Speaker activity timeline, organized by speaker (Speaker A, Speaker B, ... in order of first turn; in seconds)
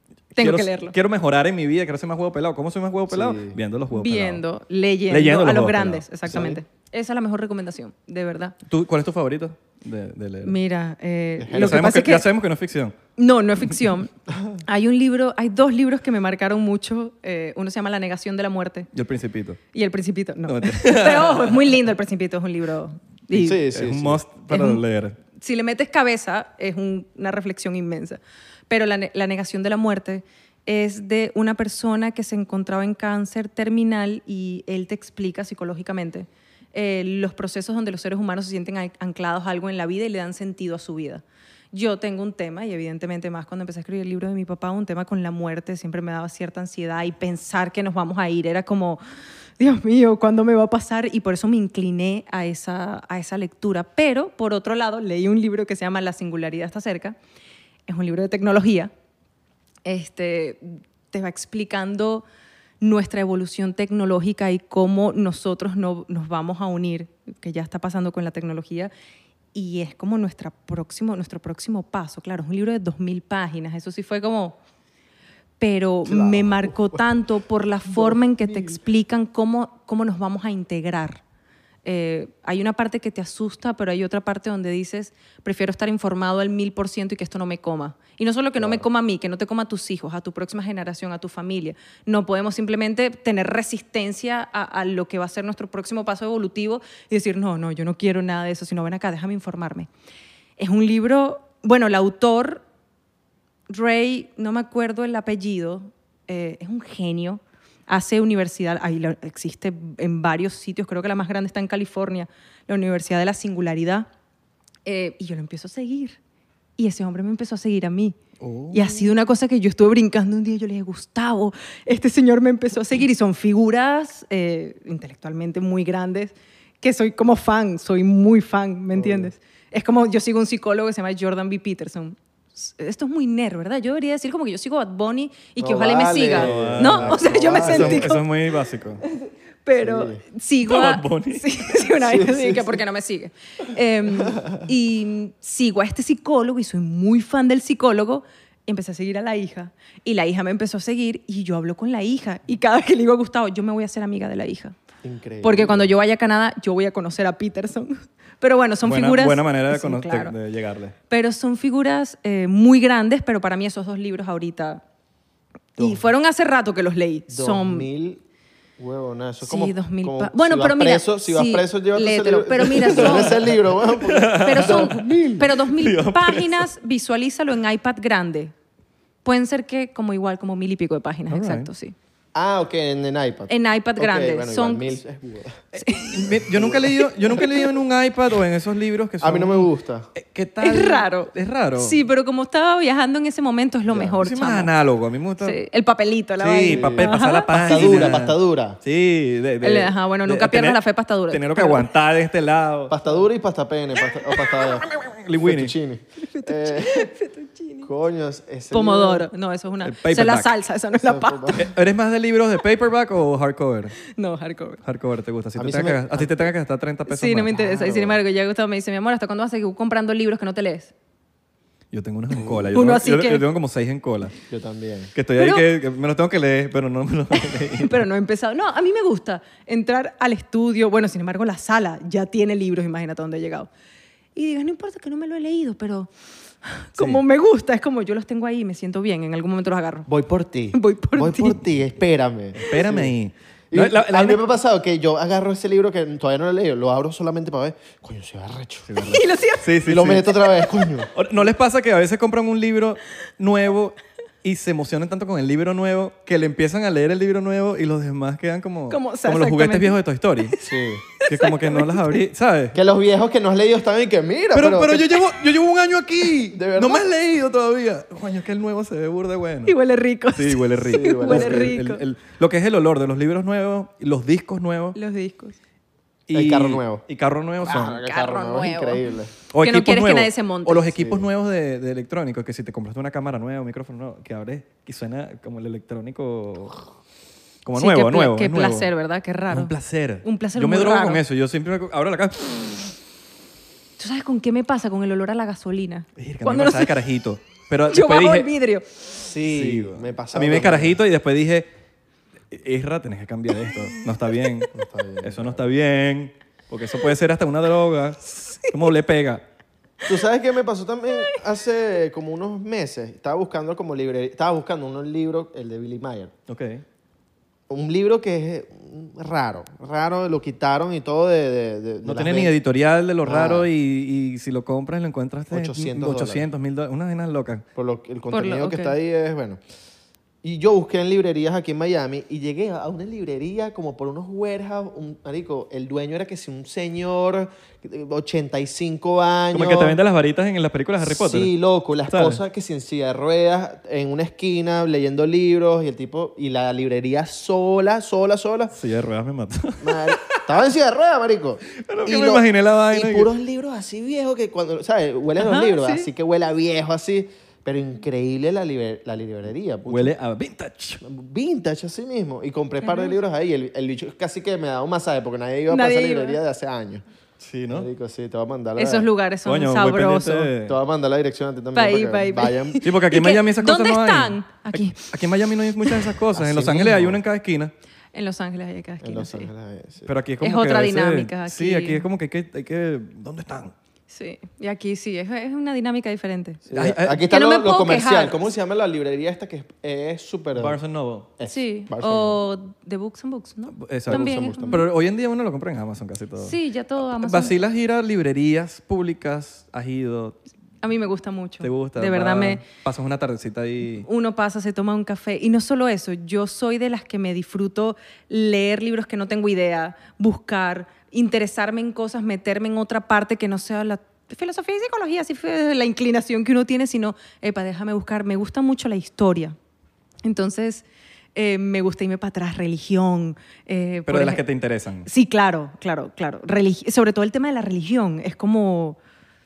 Speaker A: 0.3-4.4, 5.1-6.0, 8.7-10.5, 11.5-12.9, 18.9-19.6, 20.4-21.7, 23.3-25.2, 118.4-119.0, 136.3-139.0, 140.6-141.8, 158.8-160.9, 172.9-175.0, 175.7-176.7, 181.3-181.7, 185.7-192.0, 194.2-195.6, 196.4-203.0, 204.8-205.7, 209.8-210.5, 211.5-214.0, 214.8-217.5, 221.9-224.3, 225.1-228.0, 237.0-237.2, 242.5-244.4, 248.9-250.3, 251.1-260.6, 261.2-262.8, 264.5-269.7, 270.3-275.0, 276.3-278.0, 279.5-286.8, 287.6-288.9, 289.5-292.9, 296.2-298.5, 299.4-301.7, 302.5-309.4, 316.5-316.8, 322.0-327.6, 339.5-341.5, 342.1-342.4, 348.7-350.5, 351.6-353.3, 359.9-361.0, 367.4-367.9, 369.4-370.8, 372.8-377.7, 380.1-383.7, 386.7-387.2, 390.6-391.3, 393.7-396.6, 397.1-400.4, 401.6-404.1, 424.1-425.1
Speaker B: 0.3-0.9, 3.9-8.6, 10.4-12.2, 13.2-14.1, 14.6-18.9, 19.7-23.6, 24.5-24.8, 25.4-49.0, 49.6-57.2, 57.9-58.9, 59.8-62.2, 62.8-68.9, 69.5-74.6, 75.6-81.2, 81.8-99.9, 100.6-102.6, 103.7-114.1, 114.8-116.2, 116.8-118.2, 118.7-138.2, 139.0-154.7, 155.4-160.3, 161.1-164.8, 165.8-167.9, 169.4-173.5, 174.4-178.5, 179.2-181.9, 183.5-184.9, 185.8-186.3, 187.0-187.6, 190.6-194.7, 195.4-198.2, 199.6-201.9, 206.3-207.9, 208.7-211.7, 214.1-214.8, 217.1-220.9, 222.7-223.4, 225.4-225.7, 227.4-233.7, 234.3-236.1, 236.6-240.1, 240.7-241.6, 249.0-249.7, 258.9-262.2, 269.7-272.0, 274.9-275.6, 277.7-279.0, 279.6-281.0, 287.8-291.2, 294.0-296.9, 297.9-299.0, 328.3-328.9, 355.4-356.1, 362.8-363.2, 365.7-366.4, 368.8-370.5, 371.7-375.1, 378.1-379.5, 380.4-382.0, 384.1-386.6, 387.2-388.4, 391.4-394.8, 396.4-397.6, 400.8-402.6, 404.0-419.6, 420.2-424.4, 425.1-429.0
Speaker C: 3.1-3.6, 6.3-6.6, 11.4-11.8, 23.3-24.2, 76.0-77.0, 77.9-78.8, 88.6-88.8, 128.9-129.3, 135.6-138.1, 139.8-140.2, 142.0-142.8, 144.1-144.6, 155.0-155.9, 165.8-166.0, 167.3-168.2, 168.8-175.5, 182.3-185.6, 186.5-186.9, 189.2-190.1, 193.9-194.2, 196.6-198.8, 202.9-207.1, 207.8-209.3, 210.9-211.7, 215.6-216.3, 217.5-218.2, 224.5-225.1, 240.1-243.1, 243.7-249.1, 249.8-251.1, 260.6-261.0, 262.7-265.2, 266.5-267.0, 270.9-271.7, 276.3-277.0, 277.6-279.3, 281.0-281.2, 299.1-301.0, 304.7-305.6, 310.1-316.3, 317.7-322.5, 323.2-323.7, 325.5-326.4, 327.7-329.6, 330.4-340.0, 341.0-348.7, 349.8-360.1, 361.0-367.0, 367.7-369.1, 370.6-372.8, 376.3-377.2, 379.0-380.1, 386.7-390.8, 391.4-392.4, 394.1-394.8